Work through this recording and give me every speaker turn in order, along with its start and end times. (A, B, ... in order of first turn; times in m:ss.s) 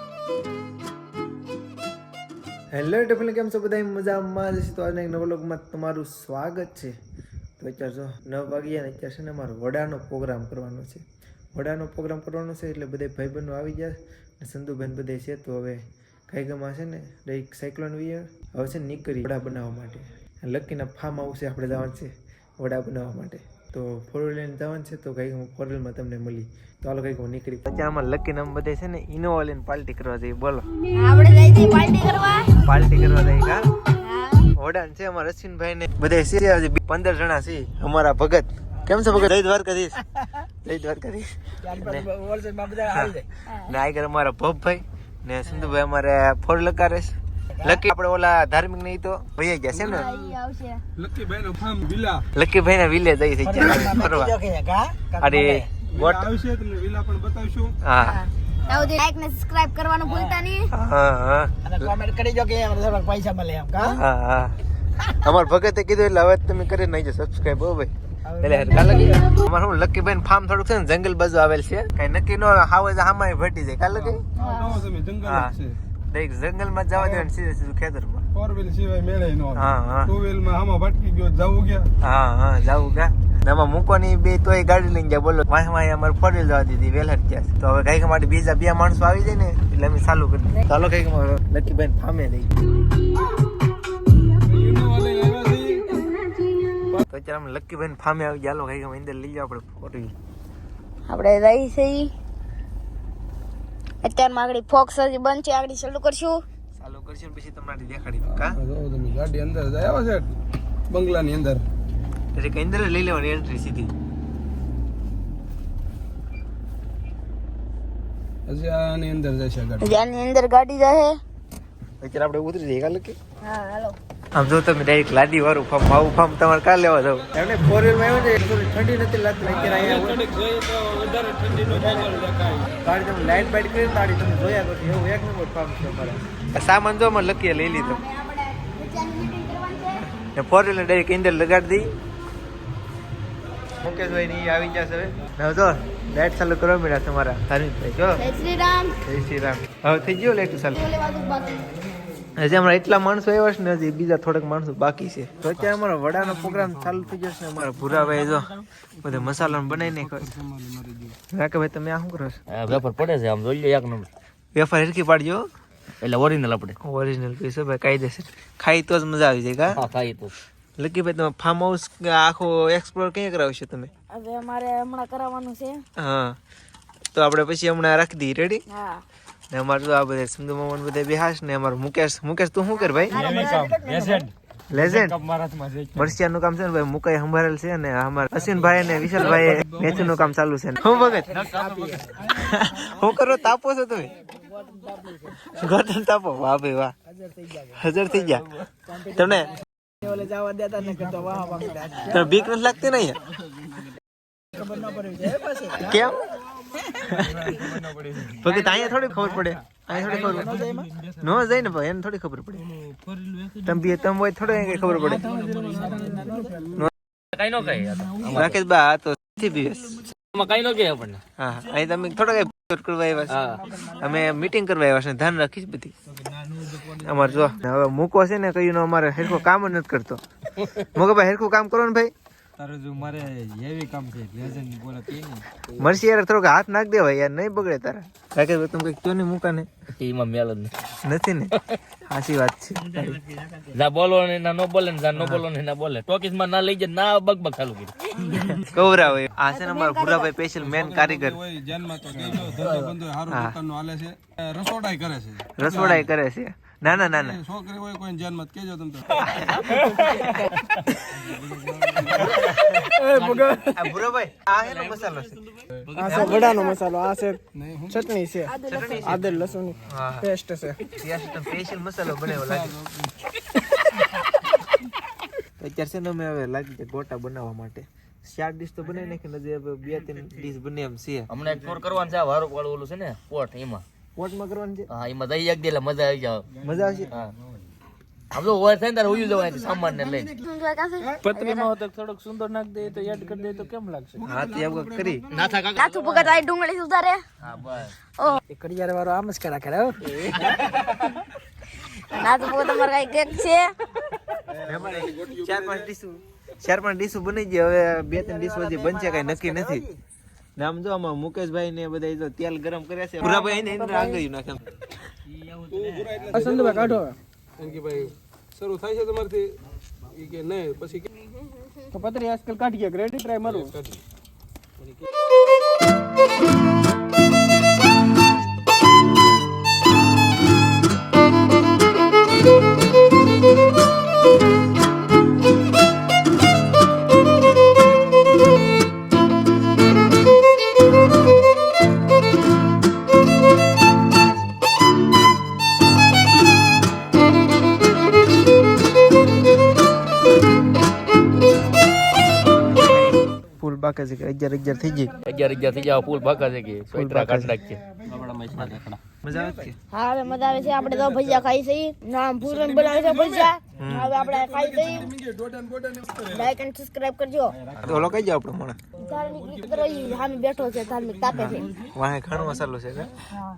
0:02.7-0:06.9 A
0:07.6-0:11.0 A
0:11.5-0:30.7 A
0:30.9-0:32.5 B
0:32.6-0:33.6 A
0:34.0-0:34.5 B
0:34.5-0:40.0 A
0:40.6-0:42.1 A
0:41.6-0:43.3 C
0:42.9-0:50.1 A
0:47.5-0:47.8 C
0:49.7-0:50.1 D
0:49.8-0:50.8 B
0:51.0-0:52.2 D
0:52.3-0:54.3 A
0:53.4-0:55.7 C
0:55.2-0:56.3 A
0:55.9-0:57.7 D
0:57.8-0:58.2 A
0:58.0-1:00.7 B
1:00.7-1:01.5 A
1:01.6-1:04.0 C
1:03.9-1:04.6 A
1:05.1-1:14.2 A
1:08.3-1:09.1 C
1:13.9-1:15.8 D
1:14.4-1:14.8 B
1:15.2-1:15.5 A
1:16.1-1:18.2 A
1:16.9-1:17.3 D
1:18.3-1:21.9 D
1:19.5-1:20.1 A
1:22.0-1:32.6 A
1:34.4-1:36.1 D
1:37.1-1:40.1 A
1:41.1-1:42.1 B
1:44.0-1:46.4 B
1:46.8-1:48.6 A
1:48.3-1:50.3 D
1:50.9-1:51.6 D
1:52.3-1:53.9 A
1:58.5-1:59.9 D
1:59.8-2:01.2 B
2:02.0-2:03.2 A
2:03.4-2:04.0 B
2:04.3-2:10.3 A
2:09.4-2:12.7 D
2:12.8-2:18.0 A
2:17.8-2:20.0 B
2:20.0-2:21.9 A
2:23.8-2:28.3 A
2:28.2-2:29.0 B
2:29.0-2:30.9 A
2:30.8-2:31.6 B
2:32.4-2:40.3 A
2:36.2-2:37.1 D
2:39.0-2:41.2 D
2:41.3-2:42.8 A
2:42.5-2:44.1 E
2:44.5-2:45.5 A
2:46.0-2:46.8 E
2:46.8-2:49.8 A
2:49.7-2:50.3 E
2:50.8-2:53.9 A
2:54.1-2:55.8 B
2:56.0-2:56.4 A
2:57.1-2:58.6 A
2:58.7-2:59.0 B
2:59.5-3:03.2 A
3:03.0-3:03.7 B
3:03.1-3:04.3 C
3:03.7-3:04.2 E
3:04.7-3:05.2 A
3:05.0-3:06.0 E
3:06.0-3:11.3 A
3:09.1-3:09.9 E
3:09.2-3:10.2 D
3:10.8-3:13.1 C
3:11.0-3:12.2 E
3:12.3-3:14.1 A
3:14.3-3:15.6 C
3:15.3-3:16.9 A
3:17.1-3:17.8 C
3:17.7-3:18.5 A
3:18.8-3:22.4 C
3:19.1-3:19.6 A
3:22.1-3:23.2 A
3:24.5-3:26.1 C
3:25.8-3:26.2 A
3:27.0-3:27.5 A
3:28.2-3:28.5 E
3:28.3-3:30.6 A
3:28.5-3:28.8 C
3:29.9-3:30.9 C
3:31.2-3:32.7 A
3:33.6-3:35.3 A
3:35.0-3:36.7 C
3:37.3-3:38.6 E
3:38.3-3:40.0 A
3:40.1-3:41.2 E
3:41.4-3:45.9 A
3:43.3-3:43.6 E
3:46.8-3:50.2 A
3:50.8-3:52.1 A
3:52.6-3:55.4 E
3:55.7-3:59.7 A
4:00.0-4:00.8 E
4:01.0-4:01.5 A
4:01.5-4:01.8 E
4:02.1-4:03.2 A
4:02.8-4:08.6 E
4:05.2-4:05.4 A
4:08.6-4:11.4 A
4:09.5-4:10.3 B
4:10.5-4:16.1 D
4:12.6-4:12.9 E
4:13.3-4:13.6 A
4:15.6-4:17.4 A
4:16.9-4:20.1 D
4:19.2-4:20.4 A
4:21.3-4:22.3 D
4:22.1-4:22.9 A
4:22.2-4:23.8 E
4:23.2-4:23.5 C
4:23.7-4:25.4 A
4:24.5-4:26.7 E
4:26.0-4:27.4 C
4:26.0-4:26.8 B
4:26.0-4:26.5 A
4:27.5-4:28.1 D
4:27.9-4:30.7 C
4:28.4-4:29.2 B
4:28.7-4:29.8 E
4:29.8-4:30.3 A
4:30.9-4:32.7 A
4:32.2-4:33.1 D
4:35.6-4:41.3 A
4:41.3-4:43.8 E
4:44.2-4:44.9 A
4:44.9-4:46.5 E
4:46.6-4:47.2 A
4:48.3-4:50.3 E
4:50.4-4:51.7 B
4:52.9-4:55.6 D
4:54.2-4:55.3 A
4:55.3-4:56.4 E
4:55.7-4:57.2 B
4:57.4-4:57.9 E
4:58.5-5:00.5 C
5:00.4-5:00.9 E
5:02.1-5:03.7 B
5:04.5-5:05.9 D
5:04.6-5:09.8 A
5:08.1-5:10.0 C
5:10.6-5:14.6 A
5:13.2-5:14.2 B
5:15.4-5:16.3 E
5:15.7-5:17.0 D
5:16.3-5:17.1 C
5:17.6-5:19.5 D
5:20.1-5:21.1 D
5:21.9-5:23.6 C
5:23.4-5:24.0 D
5:53.6-5:55.2 A
5:55.2-5:59.0 E
5:56.9-5:57.6 A
5:58.5-5:59.7 A
5:59.3-5:59.6 D
5:59.9-6:05.1 B
6:02.4-6:03.5 D
6:03.7-6:04.1 A
6:04.2-6:06.5 D
6:06.2-6:07.6 B
6:07.7-6:08.1 E
6:07.8-6:08.8 A
6:09.0-6:11.7 B
6:09.4-6:11.2 D
6:11.3-6:13.1 A